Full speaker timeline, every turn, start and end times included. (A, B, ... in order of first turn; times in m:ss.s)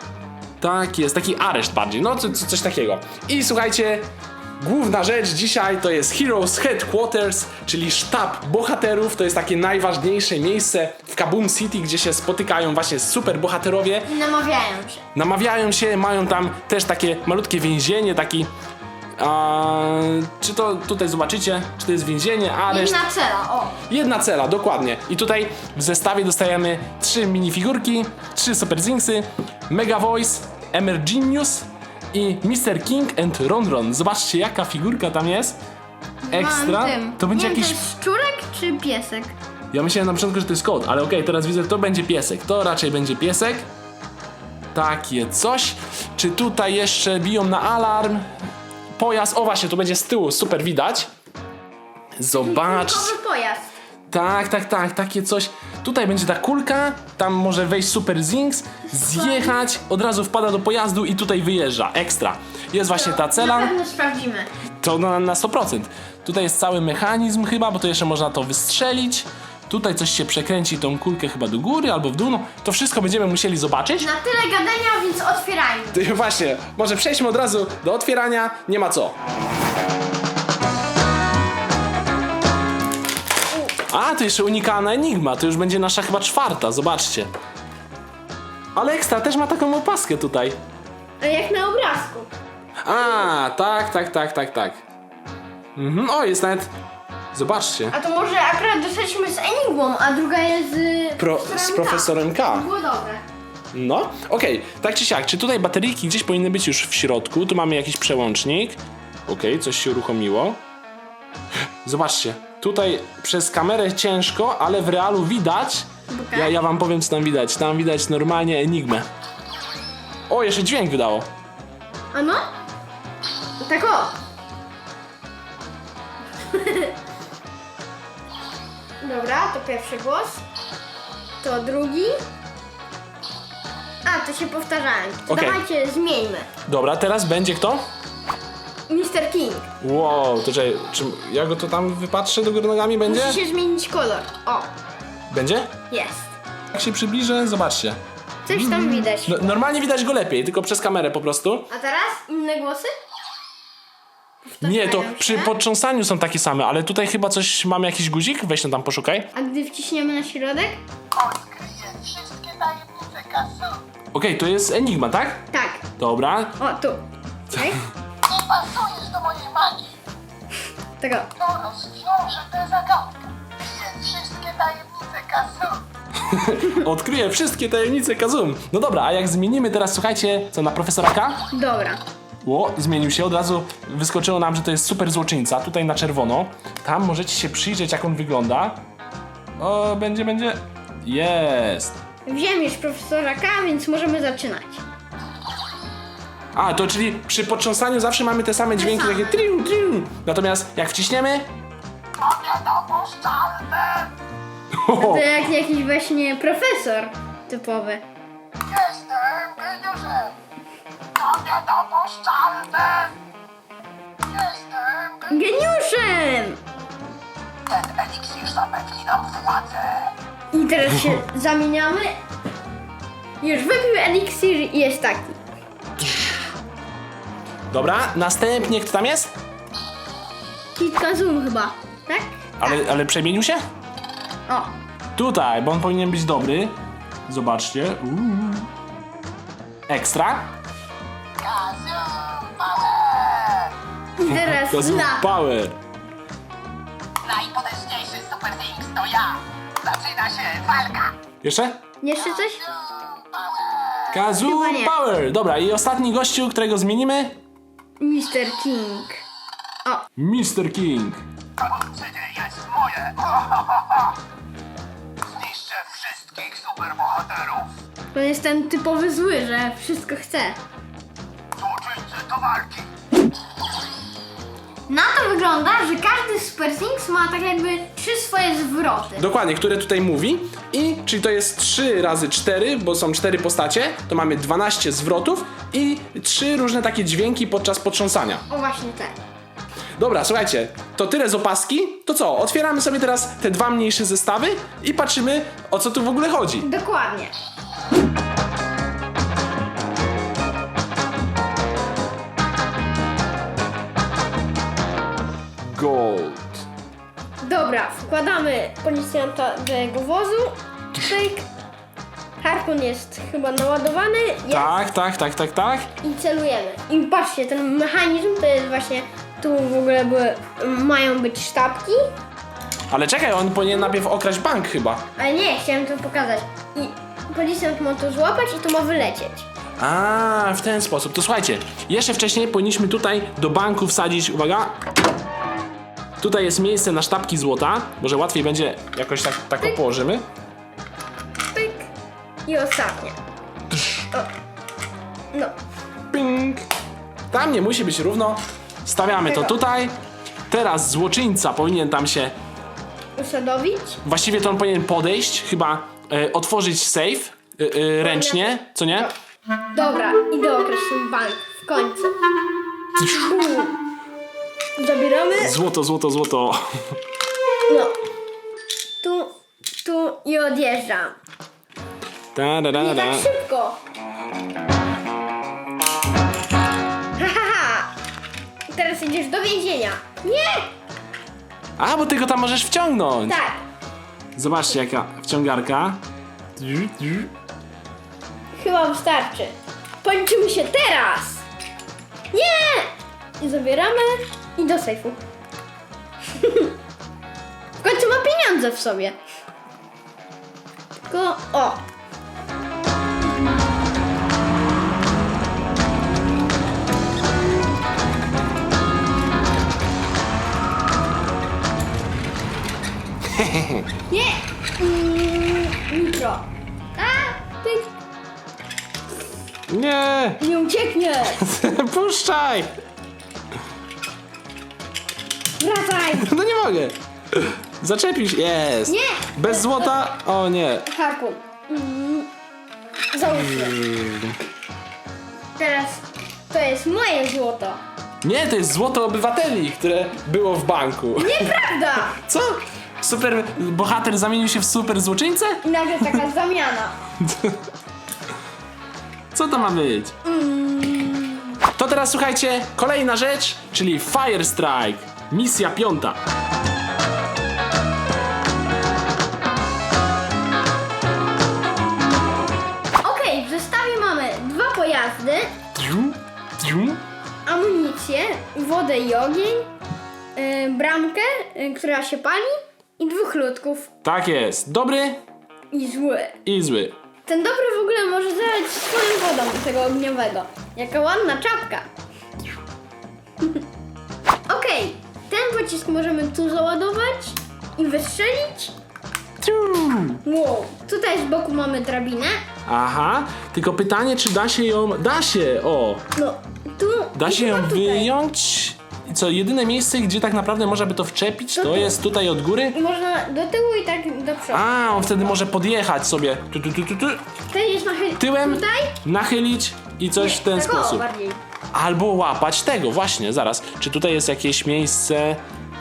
0:00.6-0:14.1 A
0:14.1-0:15.0 B
0:15.2-0:18.5 A
0:19.2-0:23.0 A
0:22.7-0:23.8 B
0:23.9-0:35.6 A
0:36.2-0:39.4 B
0:36.3-0:37.8 A
0:39.7-0:43.7 A
0:44.7-0:48.3 A
0:49.0-0:51.1 A
0:52.2-0:53.1 A
0:52.4-0:53.7 B
0:54.1-1:03.7 A
0:59.0-0:59.6 B
1:02.9-1:04.5 B
1:04.8-1:14.1 A
1:14.0-1:16.0 B
1:15.9-1:19.2 A
1:23.9-1:27.3 A
1:28.8-1:30.6 A
1:31.2-1:32.3 B
1:32.8-1:34.8 A
1:35.8-1:36.7 A
1:37.3-1:38.0 A
1:37.9-1:43.2 B
1:41.2-1:42.7 A
1:43.7-1:50.6 A
1:51.8-1:59.1 A
1:56.1-1:56.6 B
2:00.3-2:01.3 A
2:02.1-2:02.5 B
2:03.6-2:04.2 B
2:06.5-2:07.0 B
2:09.0-2:10.4 B
2:11.4-2:12.2 B
2:14.0-2:16.5 B
2:15.3-2:15.6 A
2:16.7-2:17.8 A
2:18.9-2:19.7 B
2:19.8-2:23.4 A
2:23.0-2:24.7 B
2:25.3-2:25.7 A
2:25.9-2:26.3 B
2:26.7-2:28.0 A
2:28.5-2:29.6 B
2:28.5-2:31.7 A
2:31.7-2:33.0 B
2:34.4-2:35.6 B
2:34.6-2:39.3 A
2:39.3-2:40.8 B
2:41.1-2:43.8 C
2:44.1-2:45.4 A
2:45.5-2:45.8 B
2:46.0-2:46.6 A
2:46.6-2:47.8 B
2:48.3-2:49.9 C
2:51.0-2:51.3 B
2:51.4-2:53.1 C
2:53.6-2:55.8 C
2:56.2-3:01.4 A
3:01.5-3:02.0 B
3:02.4-3:08.8 A
3:09.6-3:12.0 A
3:12.3-3:14.8 B
3:16.5-3:21.5 A
3:18.8-3:19.4 B
3:22.2-3:24.1 C
3:24.7-3:25.3 A
3:24.9-3:28.0 B
3:28.7-3:30.3 C
3:31.2-3:33.1 C
3:34.3-3:35.3 C
3:35.3-3:36.6 B
3:37.7-3:40.0 C
3:40.5-3:42.2 B
3:43.4-3:45.4 B
3:47.7-3:49.3 A
3:50.8-3:52.8 B
3:52.6-3:53.6 A
3:55.2-3:56.8 A
3:57.3-3:58.7 A
3:59.9-4:00.5 A
4:01.4-4:03.6 C
4:04.2-4:05.3 B
4:04.3-4:05.8 A
4:07.3-4:11.1 C
4:11.4-4:11.8 A
4:12.0-4:12.6 B
4:13.2-4:13.8 C
4:14.1-4:17.4 A
4:14.4-4:15.0 B
4:18.0-4:19.2 B
4:20.2-4:21.2 A
4:22.2-4:23.4 C
4:25.4-4:27.6 C
4:28.1-4:30.6 B
4:31.6-4:32.7 C
4:34.9-4:39.3 B
4:39.2-4:48.4 A
4:48.5-4:49.2 B
4:50.0-4:56.7 A
4:56.6-4:57.3 B
5:05.6-5:06.6 A
5:07.4-5:11.5 B
5:12.4-5:14.8 B
5:14.5-5:15.9 A
5:16.0-5:22.1 B
5:22.9-5:25.0 A
5:25.2-5:29.5 B
5:29.8-5:34.8 A
5:36.2-5:40.3 A
5:41.5-5:41.9 B
5:42.5-5:43.2 B
5:46.1-5:46.7 A
5:47.3-5:50.0 A
5:49.1-5:49.6 B
5:50.5-5:52.4 A
5:53.2-5:54.0 B
5:54.0-5:59.1 A
5:58.0-5:59.1 B
5:59.7-6:02.2 B
6:03.0-6:03.8 B
6:04.8-6:05.6 B
6:05.4-6:06.8 A
6:07.7-6:07.9 B
6:09.0-6:11.2 B
6:12.4-6:13.3 A
6:12.8-6:13.8 B
6:17.2-6:17.9 B
6:18.7-6:20.7 B
6:21.8-6:23.4 A
6:23.3-6:23.6 B
6:24.4-6:26.0 A
6:26.6-6:27.3 A
6:28.5-6:31.4 B
6:32.3-6:32.9 B
6:33.4-6:35.2 B
6:36.3-6:36.7 B
6:37.8-6:39.2 B
6:41.1-6:41.8 B
6:53.3-6:53.9 A
6:54.1-6:57.9 B
6:59.7-7:00.4 A
7:00.4-7:01.5 B
7:01.4-7:02.7 A
7:05.6-7:06.3 B
7:06.1-7:10.9 A
7:08.9-7:10.0 B
7:10.9-7:12.3 B
7:13.1-7:13.8 B
7:13.3-7:14.4 A
7:15.6-7:17.8 B
7:18.2-7:21.6 A
7:21.2-7:22.2 B
7:22.1-7:26.2 A
7:25.6-7:27.0 B
7:27.2-7:27.6 A
7:29.3-7:30.2 A
7:30.2-7:31.6 B
7:31.7-7:36.2 A
7:43.0-7:45.5 B
7:45.8-7:47.0 A
7:47.5-7:49.7 B
7:50.4-7:53.9 B
7:54.0-7:55.2 A
7:55.7-7:56.4 B
7:56.4-7:57.0 A
7:57.3-8:01.9 B
8:04.5-8:08.7 B
8:09.4-8:10.2 A
8:10.2-8:12.4 B
8:12.7-8:16.0 A
8:16.2-8:18.1 B
8:17.2-8:22.8 A
8:21.6-8:22.0 B
8:22.7-8:25.4 B
8:24.5-8:27.2 A
8:27.5-8:29.0 B
8:28.2-8:31.0 A
8:30.2-8:31.4 B
8:31.7-8:35.4 A